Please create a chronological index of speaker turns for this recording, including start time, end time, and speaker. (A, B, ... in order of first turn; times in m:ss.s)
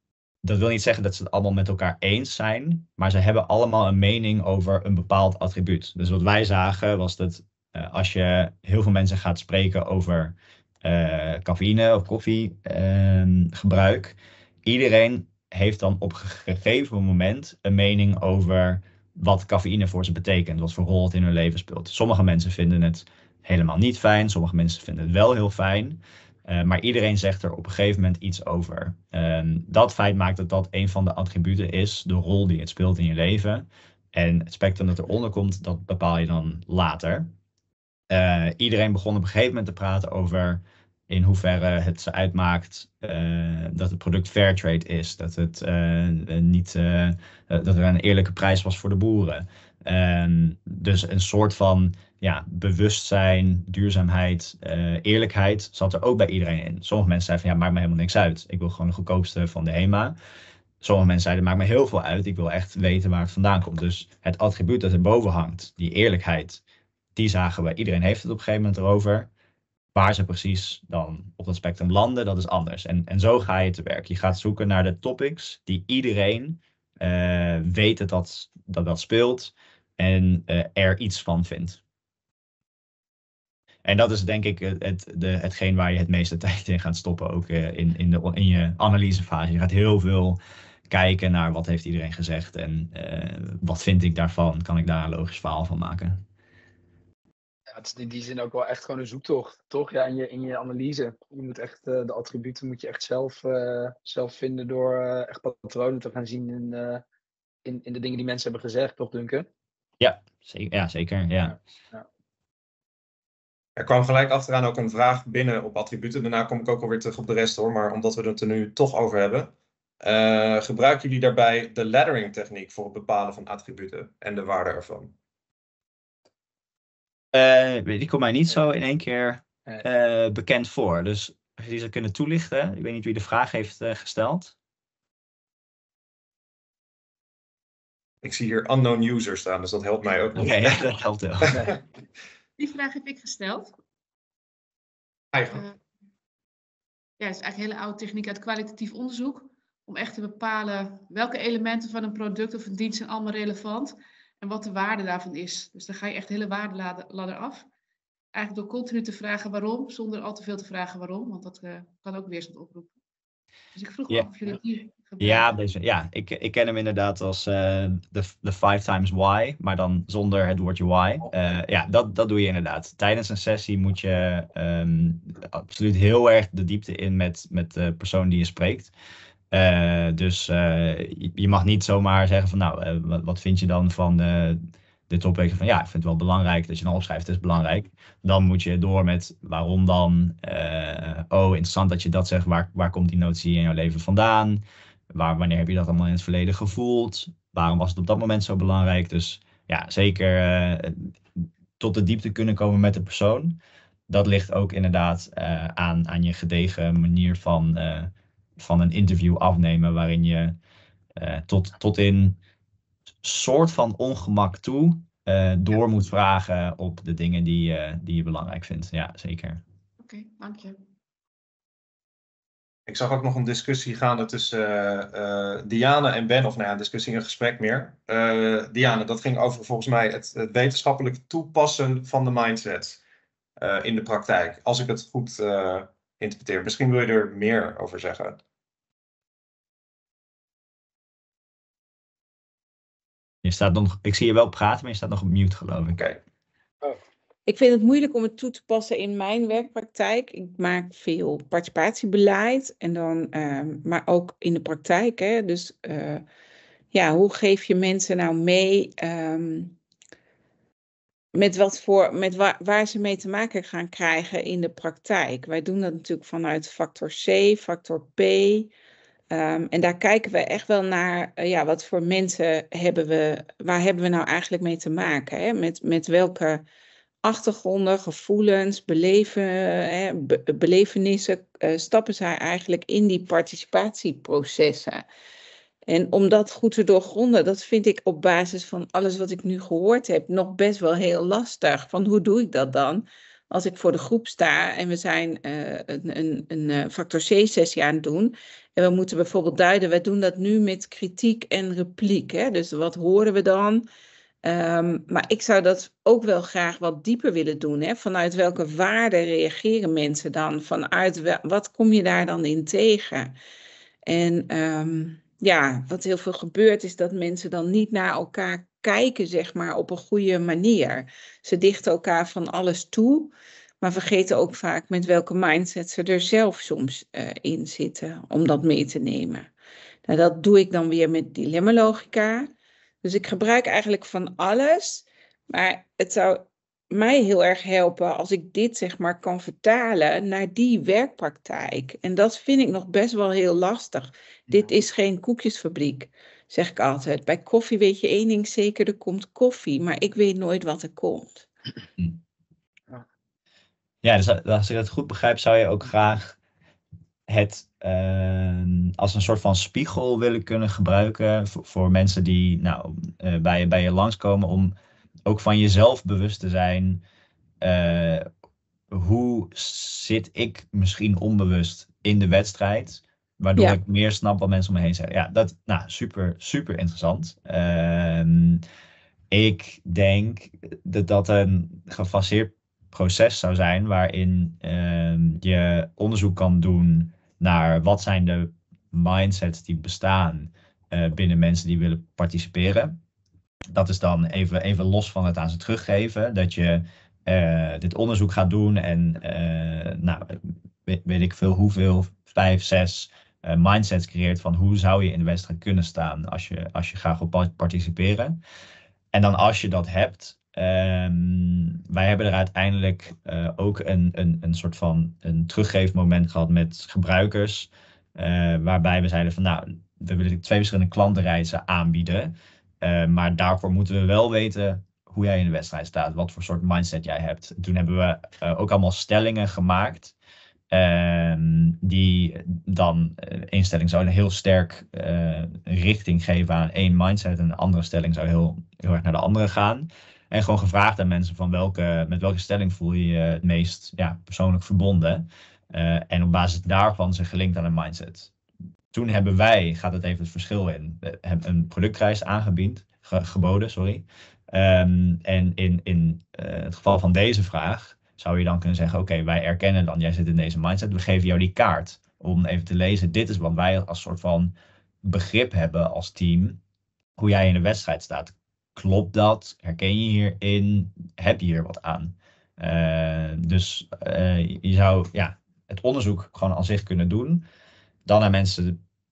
0:00.4-0:37.3 A
0:38.1-1:00.2 A
1:00.8-1:06.6 A
1:07.2-1:09.3 A
1:10.0-1:21.8 A
1:23.8-1:30.4 A
1:30.9-1:36.2 A
1:37.7-1:47.0 B
1:47.6-1:49.5 B
1:50.0-1:51.6 A
1:53.8-1:59.5 C
2:00.0-2:05.1 C
2:07.3-2:14.6 A
2:18.2-2:20.9 C
2:20.4-2:21.6 A
2:21.4-2:21.8 C
2:22.6-2:23.8 D
2:25.3-2:25.6 C
2:25.5-2:25.8 D
2:27.2-2:37.7 D
2:38.3-2:42.9 D
2:43.8-2:45.5 D
2:45.2-2:58.9 A
2:59.5-3:14.6 A
3:15.1-3:23.6 A
3:24.1-3:30.6 A
3:31.2-3:32.4 A
3:33.2-3:39.6 A
3:40.0-3:40.8 D
3:42.9-3:53.0 C
3:53.6-3:58.4 C
4:03.4-4:06.2 A
4:07.5-4:16.2 E
4:16.9-4:19.8 E
4:21.3-4:28.7 E
4:29.3-4:36.6 E
4:37.2-4:45.0 E
4:45.9-5:03.9 E
5:04.4-5:13.3 E
5:14.1-5:29.5 E
5:30.1-5:32.5 E
5:33.0-5:51.5 E
5:54.0-5:56.4 A
5:57.3-6:04.7 A
6:05.3-6:07.0 A
6:07.6-6:08.3 A
6:08.9-6:18.6 A
6:19.3-6:33.0 A
6:33.7-6:48.4 A
6:49.1-7:10.2 A
7:10.7-7:28.3 A
7:28.9-7:46.6 A
7:47.2-7:57.4 A
7:58.1-7:58.8 A